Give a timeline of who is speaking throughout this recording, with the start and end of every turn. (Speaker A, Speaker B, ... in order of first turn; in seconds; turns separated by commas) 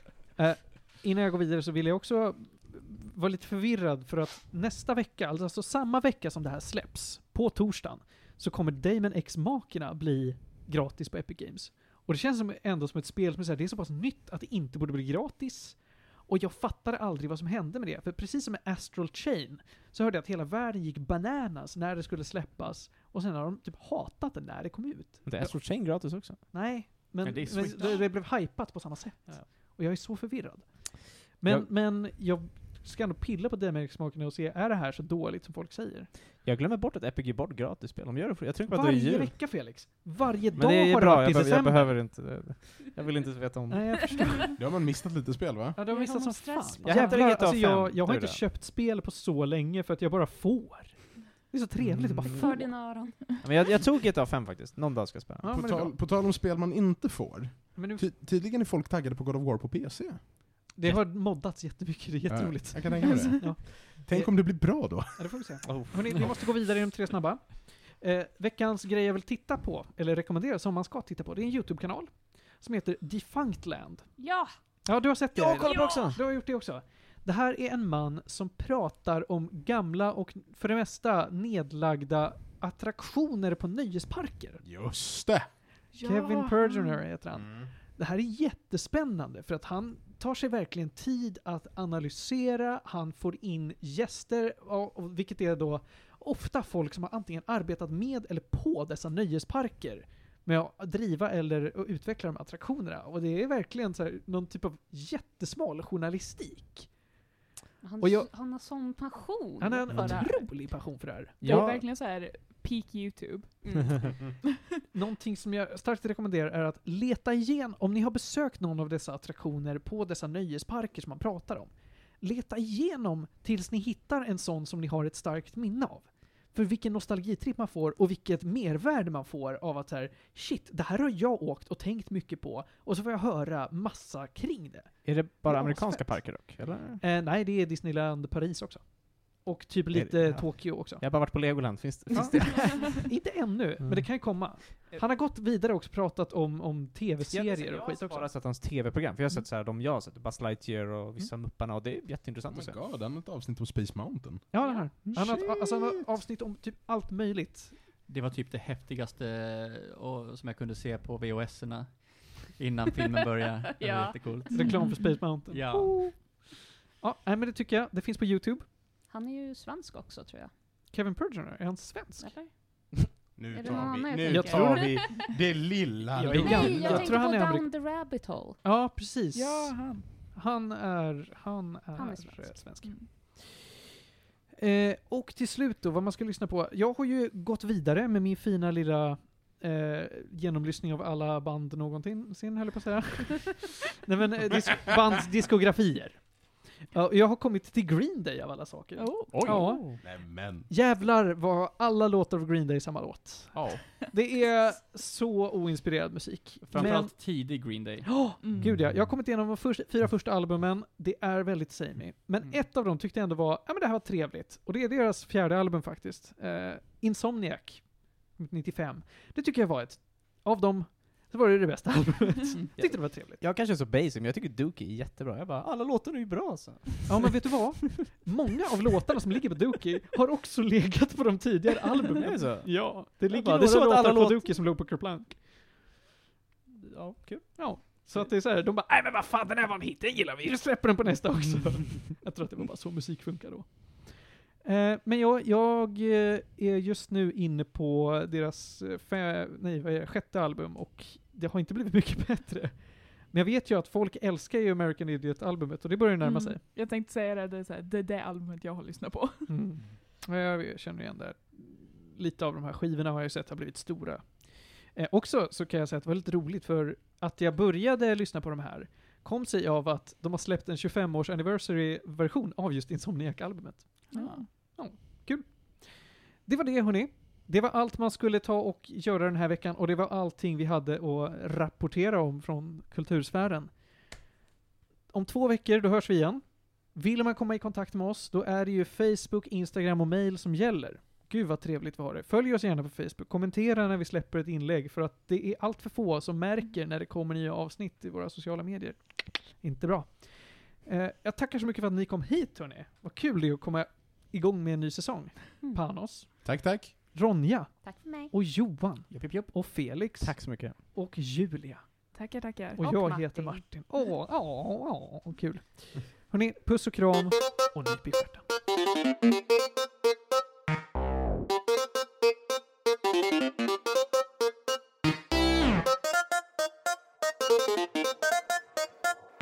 Speaker A: 0.3-25.5, Speaker B: 25.2-26.4, Speaker A: 26.5-36.1, Speaker C: 27.2-28.0, Speaker B: 36.4-39.3, Speaker A: 38.6-41.9, Speaker B: 40.5-44.3, Speaker A: 43.7-44.6, Speaker D: 44.5-45.8, Speaker A: 45.8-52.7, Speaker E: 45.9-47.2, Speaker B: 46.8-48.4, Speaker B: 51.8-52.7, Speaker F: 52.2-53.4, Speaker B: 53.4-55.5, Speaker A: 55.4-55.9, Speaker D: 55.5-60.3, Speaker A: 57.8-58.1, Speaker A: 60.7-74.1, Speaker D: 62.3-65.3, Speaker B: 65.6-66.3, Speaker F: 74.2-74.5, Speaker A: 74.8-84.6, Speaker B: 75.3-76.2, Speaker F: 75.7-76.0, Speaker D: 84.6-85.5, Speaker E: 85.9-87.0, Speaker A: 86.0-106.9, Speaker F: 107.8-110.5, Speaker A: 108.0-108.3, Speaker A: 109.6-111.4, Speaker B: 109.9-110.2, Speaker B: 111.4-111.8, Speaker E: 111.4-113.8, Speaker F: 113.6-114.0, Speaker A: 114.9-141.0, Speaker B: 135.0-137.0, Speaker B: 139.9-143.1, Speaker A: 142.1-148.3, Speaker B: 143.8-145.0, Speaker B: 147.3-152.8, Speaker D: 152.5-154.5, Speaker A: 154.5-157.7, Speaker B: 155.1-155.4, Speaker D: 155.2-155.9, Speaker C: 158.1-166.1, Speaker F: 163.8-164.3, Speaker A: 164.5-166.4, Speaker E: 164.6-165.2, Speaker A: 167.0-168.7, Speaker F: 169.1-170.5, Speaker A: 170.9-172.3, Speaker F: 172.2-172.5, Speaker D: 173.3-177.2, Speaker F: 173.5-175.2, Speaker A: 174.2-175.1, Speaker A: 176.1-177.7, Speaker F: 176.3-178.6, Speaker A: 178.6-183.8, Speaker E: 179.3-180.0, Speaker F: 181.9-182.6, Speaker A: 184.6-196.2, Speaker A: 196.9-200.0, Speaker E: 198.9-199.6, Speaker B: 199.3-199.9, Speaker C: 199.6-199.9, Speaker D: 200.0-200.7, Speaker A: 200.7-223.4, Speaker C: 203.5-203.8, Speaker C: 206.6-208.3, Speaker E: 208.4-208.7, Speaker D: 208.7-208.9, Speaker B: 222.8-227.3, Speaker A: 227.1-235.4, Speaker B: 232.1-234.5, Speaker B: 236.8-237.4, Speaker A: 237.6-243.7, Speaker A: 244.6-256.6, Speaker E: 256.2-259.5, Speaker A: 259.5-275.5, Speaker E: 274.1-274.4, Speaker A: 276.4-283.7, Speaker A: 285.1-306.5, Speaker D: 306.4-306.9, Speaker A: 307.1-311.8, Speaker F: 307.8-308.3, Speaker C: 309.1-309.7, Speaker B: 310.2-310.8, Speaker E: 312.1-313.0, Speaker A: 312.8-318.4, Speaker F: 312.9-313.6